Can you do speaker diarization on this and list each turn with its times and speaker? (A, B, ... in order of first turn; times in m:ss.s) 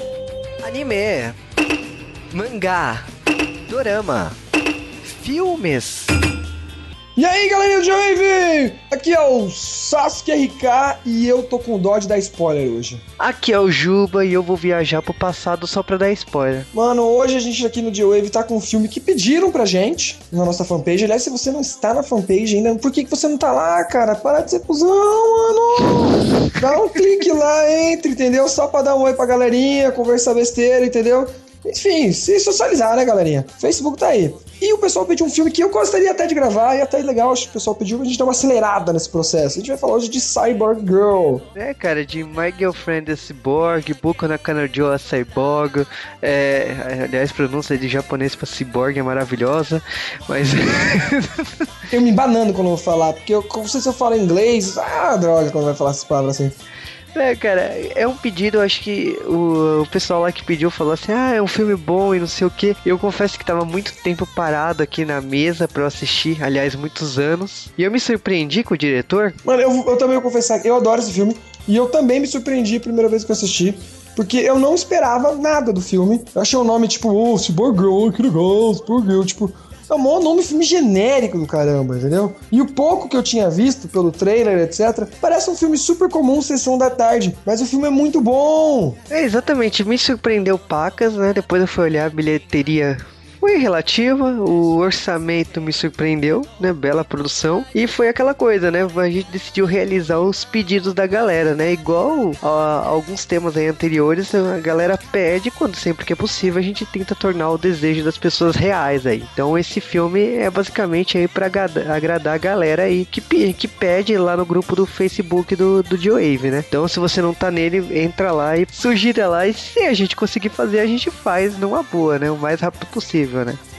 0:00.6-0:01.4 A
0:02.3-0:03.1 A
0:03.7-0:04.4 A
0:05.0-0:06.1 A
0:07.2-0:13.0 B
0:13.2-0:16.7 A
0:16.7-0:41.4 B
0:41.5-0:51.7 A
0:51.9-0:56.5 B
0:57.1-1:09.4 A
1:09.4-1:29.0 B
1:29.1-2:03.6 A